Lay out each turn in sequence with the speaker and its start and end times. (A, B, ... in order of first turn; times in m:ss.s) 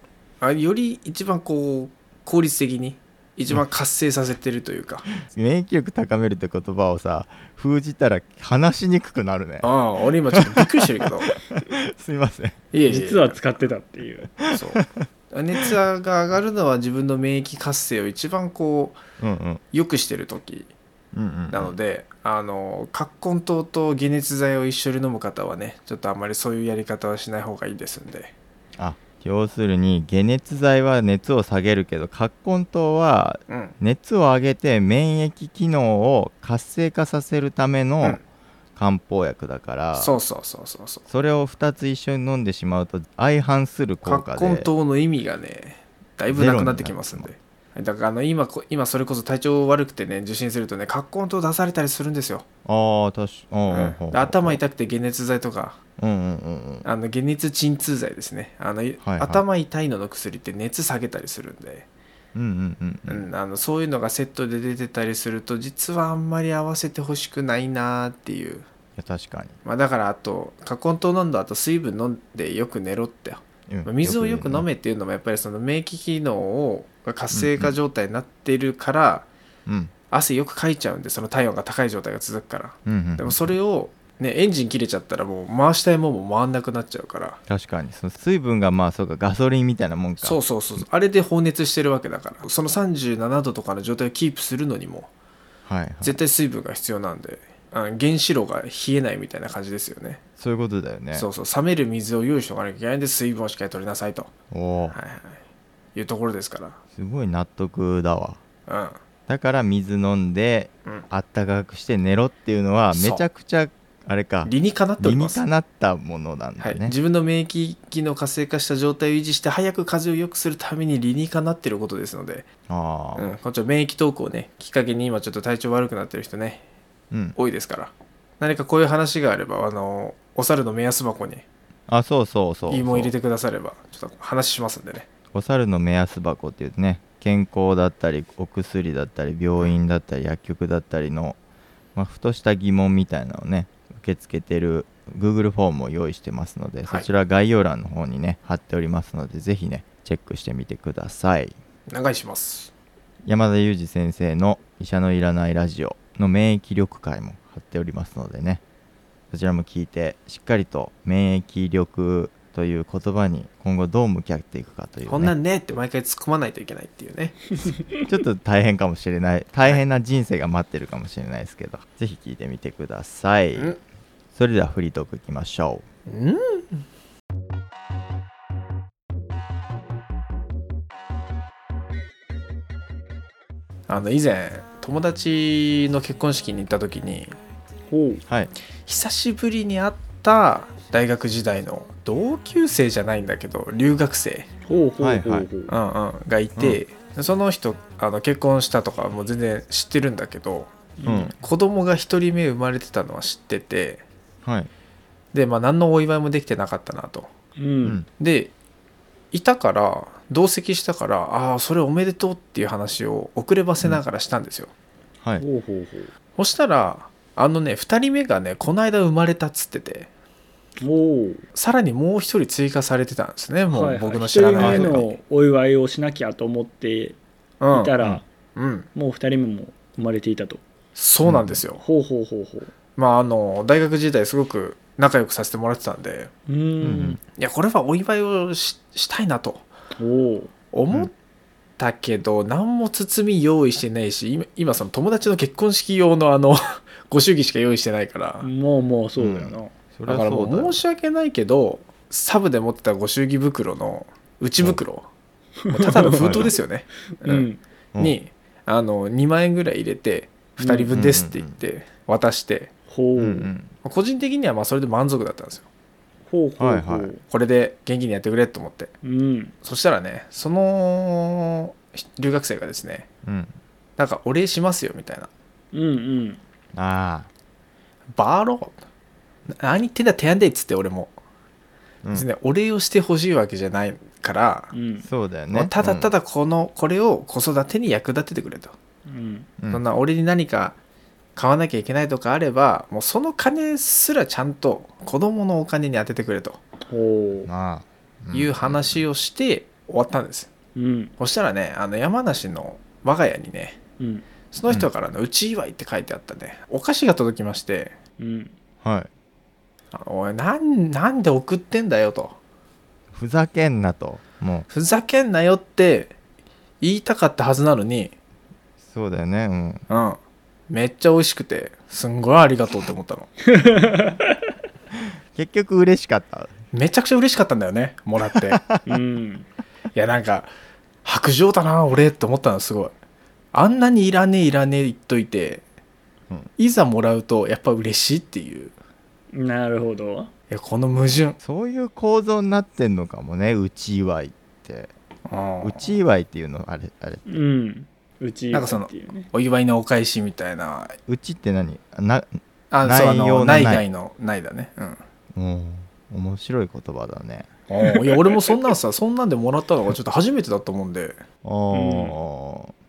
0:00.4-0:05.1 A
0:05.2-0:09.7 B
0:09.6-0:11.3 A
0:10.3-0:12.6 B
0:12.7-0:13.4 A
0:12.9-0:14.3 C
0:14.4-0:15.7 B
0:14.5-0:19.0 A
0:19.2-0:19.6 B
0:19.7-0:20.7 A
0:21.1-0:21.7 B
0:21.5-0:28.3 A
0:28.8-0:38.2 B
0:33.5-0:33.8 A
0:38.8-0:40.2 B
0:40.0-0:41.0 A
0:41.1-0:44.7 B
0:44.0-0:52.4 A
0:46.3-0:47.3 B
0:52.6-0:54.6 B
0:53.7-0:55.8 A
0:56.0-0:56.8 B
0:56.8-1:01.9 A
0:59.0-0:59.4 B
1:02.3-1:03.3 B
1:03.1-1:08.7 A
1:09.0-1:09.6 B
1:09.6-1:19.3 A
1:13.7-1:14.7 B
1:17.3-1:17.7 B
1:19.6-1:19.9 B
1:20.1-1:27.4 A
1:22.8-1:23.5 B
1:27.5-1:30.8 B
1:30.2-1:35.1 A
1:35.6-1:36.2 B
1:36.0-1:40.2 A
1:40.4-1:41.3 B
1:41.1-1:44.3 A
1:44.5-1:45.0 B
1:44.9-1:45.4 A
1:45.9-1:46.8 A
1:46.9-1:48.4 B
1:48.7-1:49.0 A
1:49.3-1:57.0 B
1:52.9-1:53.2 A
1:54.4-1:55.4 A
1:56.6-2:02.5 A
2:02.7-2:03.3 B
2:03.2-2:06.6 A
2:07.1-2:07.4 B
2:07.4-2:11.4 A
2:11.9-2:13.1 B
2:12.7-2:15.1 A
2:15.3-2:21.4 B
2:21.9-2:31.6 B
2:31.9-2:32.7 A
2:33.2-2:38.6 B
2:39.3-2:45.3 B
2:45.1-2:47.7 A
2:48.0-2:53.7 B
2:54.3-2:55.8 B
2:56.0-2:56.8 A
3:03.9-3:07.4 A
3:07.9-3:08.2 C
3:08.8-3:14.5 A
3:14.6-3:15.7 C
3:15.0-3:15.5 B
3:15.7-3:24.0 A
3:16.6-3:16.8 B
3:21.0-3:21.3 C
3:21.0-3:21.3 B
3:24.4-3:24.7 B
3:25.3-3:27.3 A
3:27.6-3:28.0 C
3:28.2-3:28.5 A
3:29.3-3:34.7 A
3:35.4-3:36.1 C
3:36.4-3:40.1 A
3:40.8-3:41.4 C
3:41.5-3:45.2 A
3:43.7-3:47.2 C
3:44.6-3:45.0 B
3:47.6-3:47.9 A
3:47.7-3:48.2 C
3:48.6-3:48.9 A
3:48.9-3:50.6 C
3:50.9-3:51.8 A
3:51.2-3:51.6 B
3:51.8-3:52.7 C
3:53.0-3:56.3 A
3:56.5-3:57.2 C
3:56.8-3:57.2 B
3:57.4-3:59.7 A
4:00.0-4:00.5 C
4:00.7-4:01.1 A
4:01.8-4:08.5 A
4:08.4-4:09.7 C
4:09.2-4:10.8 B
4:10.1-4:15.1 A
4:15.6-4:16.5 C
4:15.7-4:22.7 A
4:16.0-4:16.5 B
4:17.1-4:17.6 C
4:20.6-4:20.9 C
4:20.9-4:21.6 B
4:22.9-4:23.5 C
4:23.1-4:23.7 B
4:23.8-4:25.7 A
4:26.3-4:27.2 C
4:26.6-4:27.1 B
4:27.3-4:28.9 A
4:29.0-4:29.5 C
4:29.6-4:33.1 A
4:33.2-4:33.6 B
4:34.0-4:35.3 A
4:35.7-4:36.4 C
4:36.7-4:37.3 B
4:38.1-4:38.8 A
4:39.5-4:41.1 A
4:42.1-4:44.7 A
4:44.7-4:45.1 C
4:45.0-4:46.1 B
4:45.5-4:48.8 A
4:49.0-4:49.5 C
4:49.7-4:50.8 A
4:51.4-4:56.6 A
4:56.9-4:57.5 C
4:57.4-4:59.0 B
4:58.3-5:00.5 A
5:00.7-5:01.1 C
5:01.2-5:03.8 A
5:04.0-5:04.2 C
5:04.5-5:08.0 A
5:08.2-5:08.5 C
5:08.8-5:09.1 B
5:09.9-5:12.4 A
5:13.1-5:14.7 B
5:14.7-5:16.1 A
5:16.8-5:18.1 A
5:18.8-5:19.8 B
5:19.9-5:23.3 A
5:23.4-5:24.5 C
5:25.3-5:26.5 B
5:26.7-5:28.6 A
5:28.3-5:28.8 B
5:28.8-5:29.5 C
5:29.9-5:30.5 A
5:31.0-5:32.9 A
5:33.5-5:35.6 A
5:36.6-5:38.7 A
5:39.3-5:40.3 C
5:40.5-5:41.4 A
5:41.4-5:44.9 B
5:45.2-5:45.9 A
5:45.6-5:47.2 B
5:47.2-5:49.3 C
5:48.5-5:51.0 A
5:51.1-5:53.8 B
5:52.7-5:55.0 A
5:55.3-5:57.5 B
5:57.7-6:01.2 A
6:01.4-6:02.7 B
6:01.7-6:02.2 C